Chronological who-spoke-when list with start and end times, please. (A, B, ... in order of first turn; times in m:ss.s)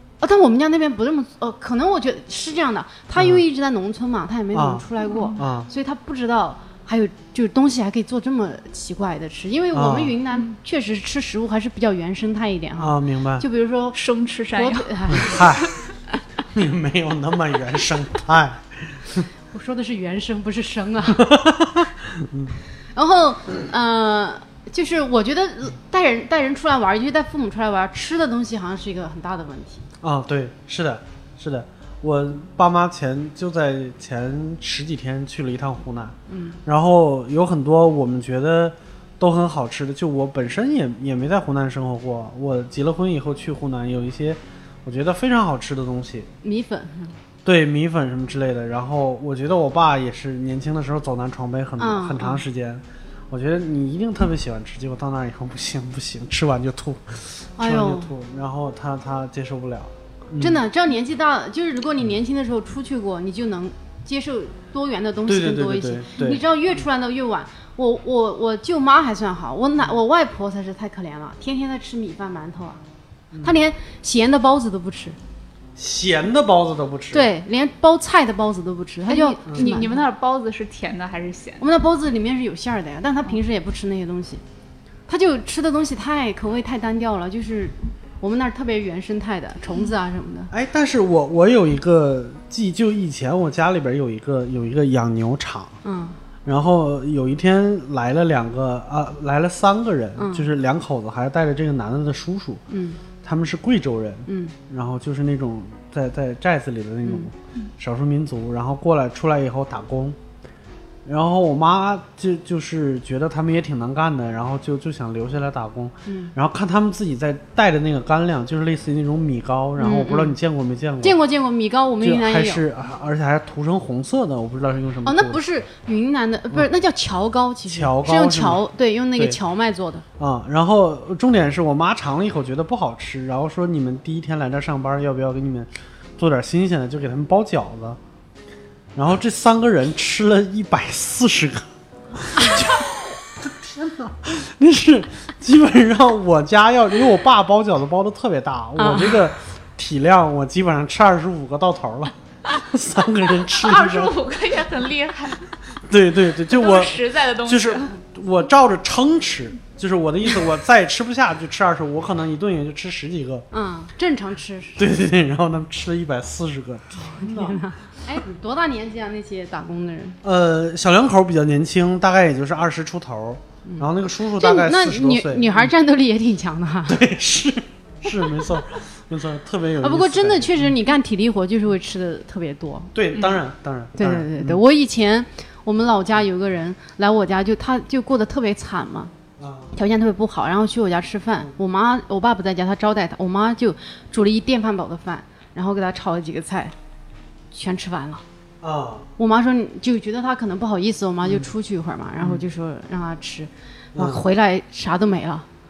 0:00.2-0:14.0 A
0:03.2-0:03.4 B
0:04.5-0:05.7 B
0:05.0-0:05.4 C
0:09.7-0:10.1 B
0:12.8-0:13.4 B
0:13.9-0:15.6 C
0:14.5-0:15.5 A
0:15.1-0:15.7 B
0:16.5-0:19.3 B
0:19.5-0:21.2 A
0:21.1-0:22.5 B
0:22.9-0:29.8 A
0:30.0-0:46.3 B
0:36.3-0:36.6 A
0:46.4-0:47.1 A
0:47.4-1:00.6 B
0:51.8-0:52.4 A
0:57.6-0:58.1 A
1:00.4-1:12.8 A
1:05.3-1:06.4 B
1:13.4-1:15.2 A
1:15.8-1:17.3 B
1:17.1-1:19.9 A
1:19.1-1:21.6 C
1:21.6-1:24.4 A
1:25.1-1:30.5 A
1:30.5-1:35.8 B
1:35.8-1:36.2 A
1:36.4-1:42.6 B
1:40.2-1:40.5 A
1:42.7-1:43.0 A
1:43.2-1:50.2 B
1:44.3-1:44.5 A
1:51.0-2:01.2 B
1:56.0-1:56.3 A
1:59.8-2:00.4 A
2:01.0-2:02.6 A
2:02.0-2:05.4 B
2:05.0-2:10.0 A
2:07.7-2:08.6 B
2:10.2-2:18.0 B
2:18.9-2:34.1 B
2:28.8-2:29.2 A
2:33.6-2:35.5 C
2:35.9-2:43.4 B
2:36.5-2:37.9 C
2:43.5-2:44.8 A
2:44.8-2:47.6 B
2:47.0-2:50.2 A
2:50.2-2:55.7 B
2:53.6-2:57.0 A
2:56.9-3:00.7 B
2:59.8-3:02.9 A
3:02.9-3:04.6 B
3:04.0-3:09.1 A
3:09.4-3:09.7 B
3:09.7-3:16.7 A
3:17.5-3:18.2 A
3:18.6-3:19.1 B
3:19.2-3:25.4 A
3:23.9-3:24.2 B